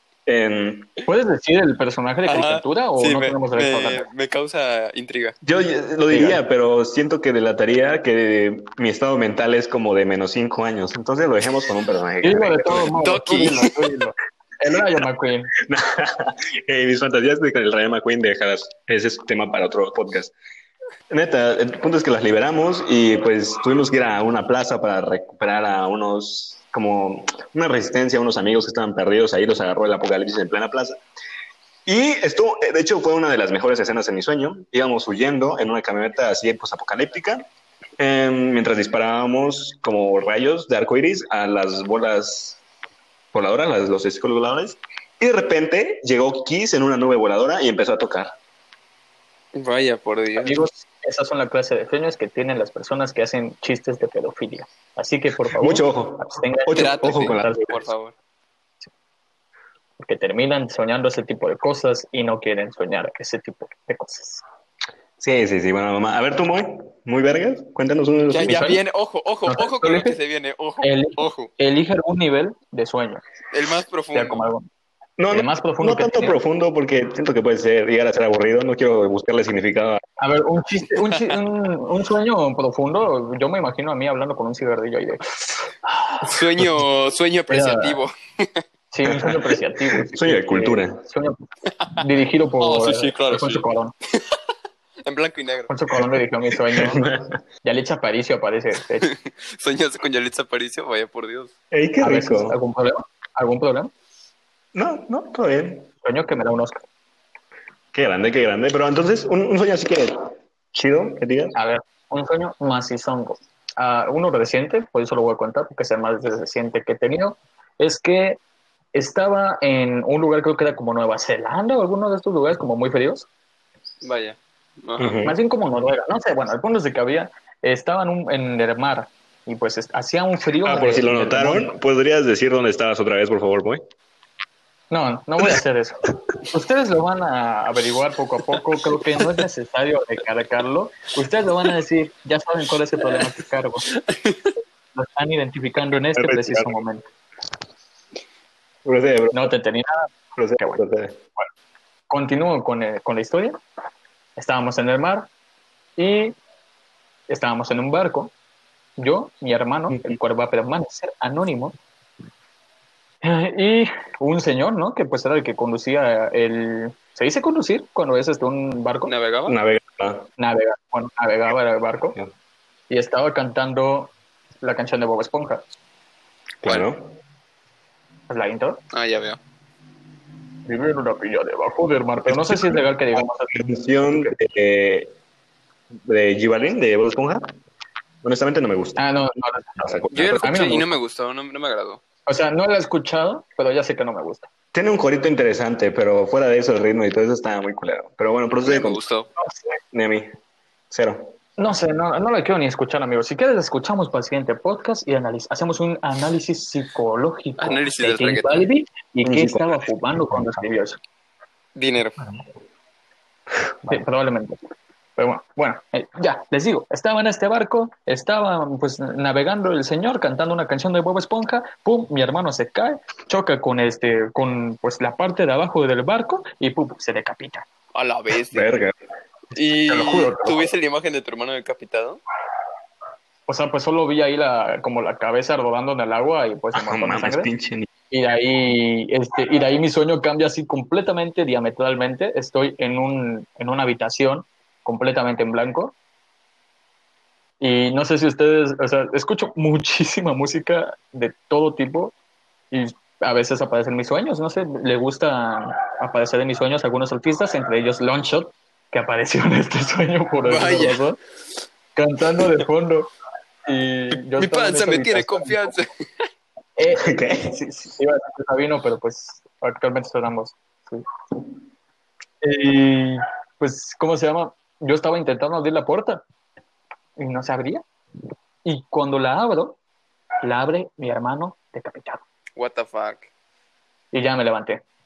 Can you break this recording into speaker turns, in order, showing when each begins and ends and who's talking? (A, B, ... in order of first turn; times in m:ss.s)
0:00.3-0:00.9 A
0:01.1-0:04.0 B
0:02.3-0:05.4 C
0:05.4-0:13.0 A
0:06.1-0:06.4 B
0:12.2-0:15.5 B
0:13.0-0:13.8 C
0:15.6-0:20.3 A
0:21.1-0:31.0 A
0:31.9-0:37.5 A
0:38.0-0:42.6 A
0:43.3-0:48.3 A
0:49.6-0:50.6 C
0:50.4-0:57.8 B
0:55.5-0:57.6 A
0:56.7-0:58.1 C
1:00.0-1:04.4 B
1:05.2-1:08.7 A
1:08.3-1:11.5 C
1:08.4-1:08.8 B
1:09.5-1:10.2 B
1:10.8-1:13.2 B
1:13.5-1:14.4 C
1:14.1-1:14.7 B
1:15.2-1:20.0 A
1:15.3-1:16.4 B
1:20.2-1:25.2 B
1:25.9-1:26.3 B
1:26.2-1:28.6 C
1:27.5-1:28.0 B
1:28.9-1:31.4 B
1:29.1-1:31.0 A
1:32.0-1:33.9 B
1:32.6-1:34.4 C
1:35.0-1:35.7 C
1:35.7-1:37.1 B
1:36.7-1:37.4 A
1:37.6-1:39.1 B
1:39.0-1:41.5 C
1:41.7-1:42.6 A
1:42.0-1:43.9 B
1:44.8-1:45.9 A
1:46.0-1:46.8 B
1:47.9-1:51.6 A
1:51.6-1:58.4 B
1:58.9-2:03.3 B
2:04.0-2:05.2 C
2:05.0-2:05.4 A
2:05.2-2:11.8 B
2:10.6-2:13.8 A
2:14.9-2:23.9 B
2:23.9-2:24.5 C
2:25.0-2:27.0 B
2:26.2-2:26.8 A
2:28.8-2:29.5 A
2:29.3-2:30.8 B
2:30.4-2:31.2 A
2:32.1-2:33.6 B
2:34.4-2:35.3 B
2:36.0-2:36.4 B
2:37.3-2:38.3 B
2:39.0-2:41.8 B
2:43.2-2:49.1 B
2:49.1-2:49.6 C
2:49.5-2:50.3 A
2:50.4-2:52.2 B
2:52.9-2:55.6 B
2:56.6-2:57.2 A
2:58.3-2:58.8 B
2:58.9-2:59.4 C
3:00.7-3:04.3 B
3:02.2-3:05.1 A
3:06.0-3:07.5 A
3:08.2-3:09.0 A
3:09.0-3:10.9 B
3:09.8-3:10.6 A
3:10.1-3:12.0 C
3:12.3-3:14.5 B
3:14.7-3:19.0 A
3:18.6-3:19.3 C
3:19.9-3:20.3 A
3:20.9-3:21.4 A
3:21.6-3:31.0 B
3:27.6-3:28.7 C
3:29.2-3:29.8 A
3:31.8-3:32.2 C
3:33.9-3:34.6 B
3:35.2-3:47.7 B
3:47.9-3:48.7 C
3:48.5-3:48.9 A
3:49.6-3:52.2 C
3:49.9-3:50.6 B
3:53.5-3:57.5 B
3:56.7-3:57.9 A
3:58.1-4:06.0 B
4:07.6-4:12.1 B
4:12.7-4:21.2 B
4:20.5-4:21.0 C
4:22.0-4:23.1 B
4:23.7-4:25.6 B
4:24.4-4:26.2 C
4:26.8-4:31.0 B
4:27.0-4:27.6 A
4:32.4-4:36.2 B
4:37.2-4:37.8 B
4:38.6-4:39.8 B
4:40.4-4:42.2 B
4:42.6-4:43.3 C
4:44.1-4:44.8 B